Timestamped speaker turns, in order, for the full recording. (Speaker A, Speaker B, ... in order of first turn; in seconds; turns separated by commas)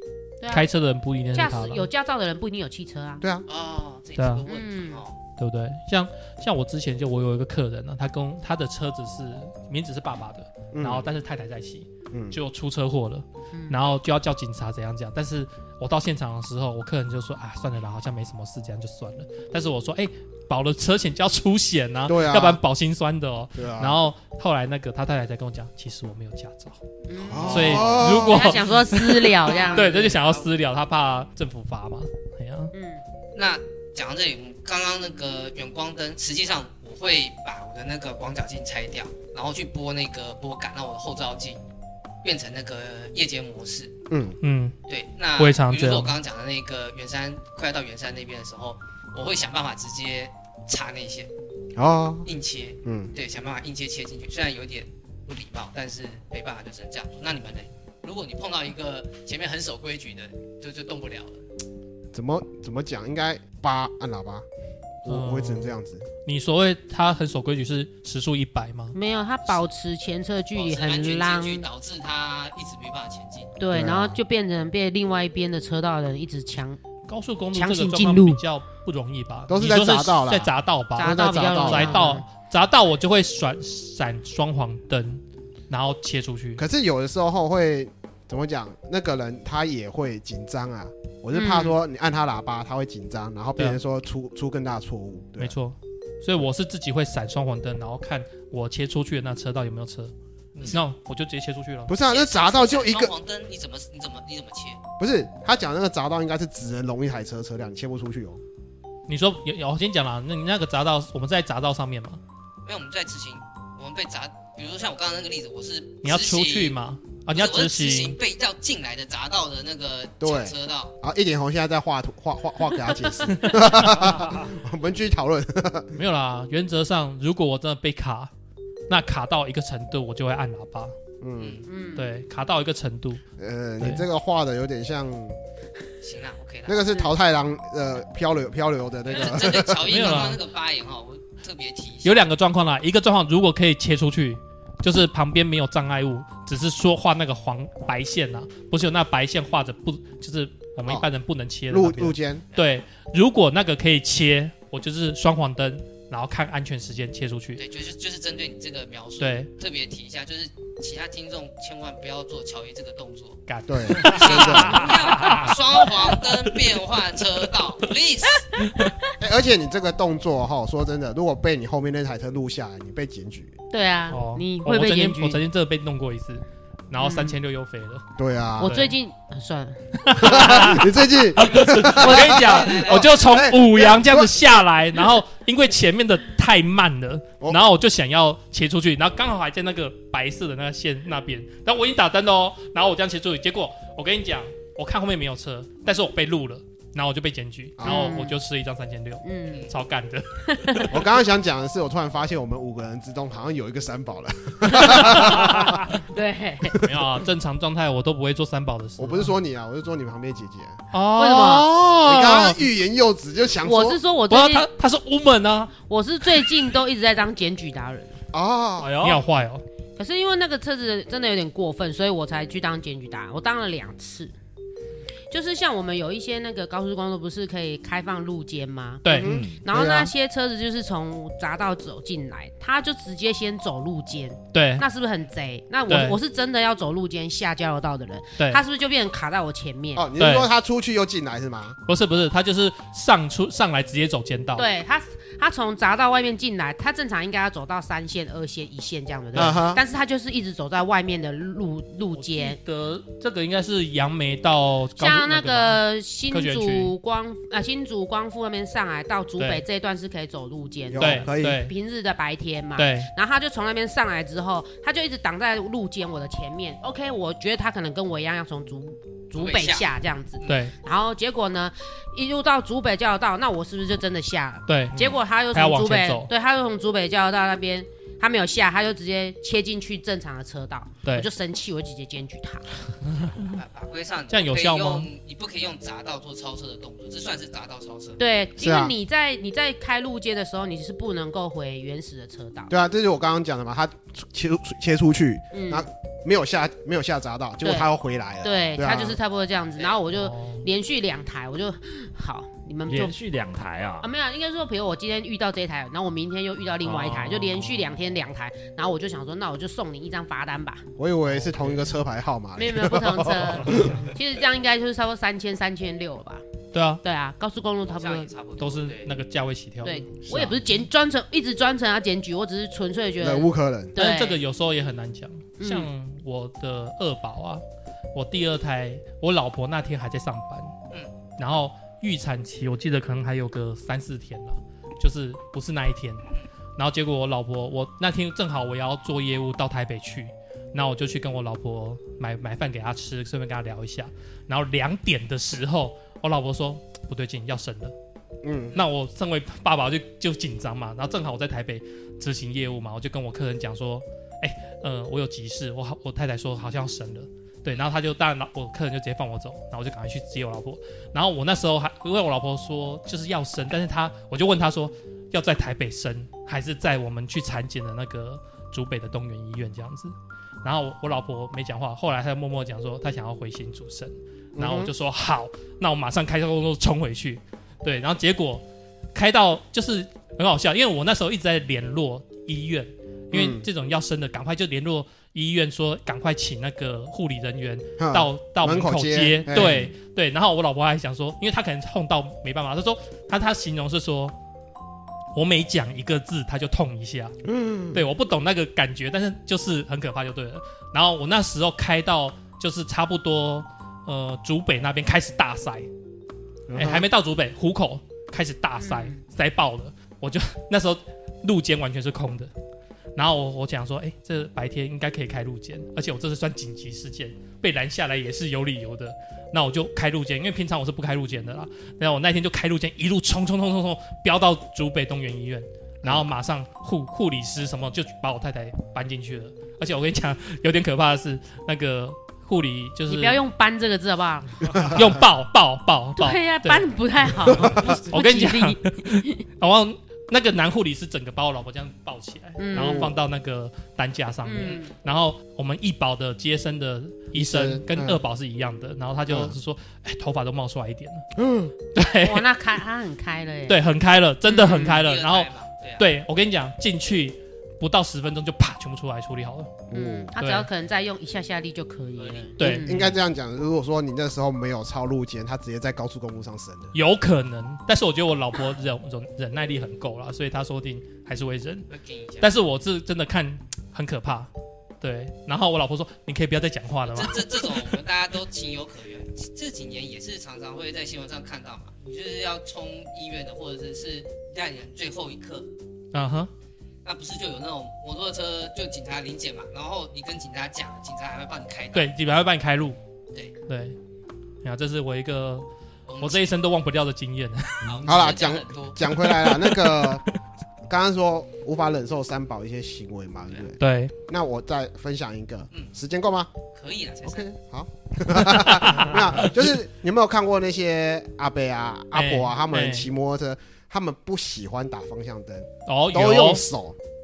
Speaker A: 0.4-0.7, Speaker B: 0.5-1.9, Speaker A: 1.3-3.2, Speaker C: 3.2-3.5, Speaker D: 3.5-5.2, Speaker B: 4.2-4.4, Speaker A: 4.5-5.0, Speaker B: 5.2-26.8, Speaker C: 10.7-11.1, Speaker C: 12.1-12.4, Speaker A: 13.5-13.8, Speaker C: 22.1-22.6, Speaker C: 23.6-24.0, Speaker A: 27.1-30.2, Speaker C: 27.3-28.6, Speaker D: 27.4-27.9, Speaker B: 27.5-32.7, Speaker D: 29.5-30.5, Speaker A: 32.7-33.0, Speaker D: 33.4-41.6, Speaker D: 42.2-43.9, Speaker C: 44.1-44.4, Speaker B: 44.4-44.7, Speaker D: 44.9-51.3, Speaker B: 45.4-46.1, Speaker C: 51.8-52.3, Speaker D: 52.2-61.4, Speaker C: 52.9-53.1, Speaker C: 62.1-64.4, Speaker C: 65.0-66.0, Speaker B: 65.1-69.0, Speaker A: 68.9-71.7, Speaker D: 70.5-73.5, Speaker A: 73.6-76.8, Speaker C: 73.7-74.2, Speaker B: 77.1-86.6, Speaker A: 77.5-78.4, Speaker C: 79.5-82.0, Speaker A: 81.0-82.2, Speaker C: 86.6-95.5, Speaker A: 91.3-91.8, Speaker B: 95.4-101.9, Speaker C: 101.9-103.1, Speaker D: 102.0-104.8, Speaker C: 105.0-108.4, Speaker B: 109.1-112.2, Speaker D: 112.6-116.8, Speaker B: 116.0-118.2, Speaker D: 117.3-120.9, Speaker C: 120.2-125.9, Speaker B: 123.4-124.0, Speaker B: 125.9-128.3, Speaker B: 128.9-130.9, Speaker C: 131.2-131.6, Speaker D: 131.4-131.7, Speaker A: 131.7-132.1, Speaker B: 131.9-133.2, Speaker C: 133.4-135.4, Speaker D: 136.0-136.8, Speaker C: 136.7-140.1, Speaker D: 139.1-142.2, Speaker B: 139.8-140.4, Speaker B: 142.0-157.6, Speaker C: 151.7-152.4, Speaker D: 157.6-168.4, Speaker B: 159.2-159.5, Speaker B: 163.5-166.5, Speaker C: 163.7-164.8, Speaker B: 168.6-168.9, Speaker C: 169.2-173.6, Speaker A: 173.7-175.4, Speaker B: 174.1-178.0, Speaker A: 177.0-177.4, Speaker C: 178.2-178.8, Speaker A: 178.6-180.8, Speaker B: 178.6-178.9, Speaker B: 180.0-200.9, Speaker C: 180.2-184.5, Speaker D: 181.6-183.2, Speaker C: 197.8-198.2, Speaker A: 197.8-198.4, Speaker A: 199.2-199.7, Speaker A: 200.4-200.9, Speaker C: 200.9-205.8, Speaker A: 204.7-206.8, Speaker B: 205.0-205.4, Speaker B: 206.8-209.3, Speaker C: 209.0-210.8, Speaker B: 210.9-212.6, Speaker A: 211.2-211.7, Speaker C: 211.8-214.0, Speaker A: 213.6-214.7, Speaker B: 214.3-215.7, Speaker A: 215.8-218.2, Speaker B: 216.2-216.6, Speaker C: 218.3-218.9, Speaker E: 218.8-219.2, Speaker B: 219.0-219.6, Speaker A: 219.9-224.3, Speaker A: 225.3-240.1, Speaker B: 229.0-229.4, Speaker C: 229.1-230.1, Speaker E: 229.2-229.6, Speaker B: 234.5-234.9, Speaker B: 235.9-236.2, Speaker C: 239.9-241.8, Speaker B: 240.2-240.5, Speaker B: 241.9-244.7, Speaker A: 244.6-252.6, Speaker C: 249.3-249.8, Speaker B: 252.1-256.9, Speaker A: 255.0-282.7, Speaker B: 259.4-259.6, Speaker C: 260.9-261.6, Speaker B: 261.0-261.7, Speaker B: 262.8-263.1, Speaker D: 269.4-270.6, Speaker B: 270.5-270.7, Speaker B: 274.7-276.3, Speaker B: 283.1-283.6, Speaker D: 283.4-288.2, Speaker B: 284.3-285.1, Speaker A: 288.2-292.7, Speaker C: 288.6-288.9, Speaker C: 292.7-299.2, Speaker A: 295.5-295.9, Speaker A: 297.6-297.9, Speaker A: 298.4-303.1, Speaker B: 300.1-300.6, Speaker E: 302.9-304.1, Speaker A: 304.0-310.9, Speaker C: 311.0-314.0, Speaker A: 312.6-316.4, Speaker B: 316.7-317.0, Speaker A: 317.0-318.3, Speaker D: 317.9-319.1, Speaker B: 318.6-320.6, Speaker A: 319.8-324.4, Speaker C: 323.2-323.9, Speaker B: 323.9-327.6, Speaker A: 325.6-325.9, Speaker B: 328.1-330.7, Speaker B: 331.4-336.2, Speaker B: 336.8-347.9, Speaker C: 348.4-348.8, Speaker B: 348.7-394.4, Speaker C: 374.6-374.9, Speaker C: 383.3-383.6, Speaker C: 388.0-389.9, Speaker B: 395.4-397.4, Speaker C: 397.4-398.0, Speaker B: 397.9-405.9, Speaker C: 406.7-407.1, Speaker B: 406.7-412.5, Speaker A: 408.8-409.2, Speaker B: 413.1-433.4, Speaker C: 426.0-426.3, Speaker A: 433.1-434.8, Speaker C: 434.7-435.1, Speaker B: 434.8-451.3, Speaker A: 436.1-439.4, Speaker C: 437.5-437.9, Speaker A: 442.6-443.1, Speaker C: 442.7-443.1, Speaker A: 444.4-444.9, Speaker C: 447.4-448.2, Speaker C: 449.3-449.5, Speaker C: 451.4-451.7, Speaker B: 451.9-452.5, Speaker A: 452.2-453.8, Speaker B: 453.7-459.7, Speaker A: 454.4-455.0, Speaker D: 454.8-456.1, Speaker A: 459.9-463.1, Speaker C: 459.9-460.3, Speaker B: 460.4-460.7, Speaker D: 462.2-462.5, Speaker B: 462.6-463.1, Speaker C: 462.8-466.9, Speaker B: 466.9-471.9, Speaker D: 471.9-472.5, Speaker B: 472.4-474.5, Speaker B: 475.0-478.0, Speaker D: 477.0-485.7, Speaker B: 486.1-486.5, Speaker D: 487.1-492.1, Speaker B: 491.9-493.0, Speaker B: 493.6-493.9, Speaker B: 494.6-495.6, Speaker D: 496.1-496.4, Speaker B: 496.2-498.1, Speaker D: 497.8-499.1, Speaker C: 498.1-500.2, Speaker B: 499.3-500.2, Speaker C: 500.9-503.8, Speaker B: 503.8-504.1, Speaker C: 504.3-506.5, Speaker D: 506.7-507.5, Speaker C: 507.2-517.0, Speaker B: 508.4-509.6, Speaker B: 512.1-513.1, Speaker B: 515.9-516.6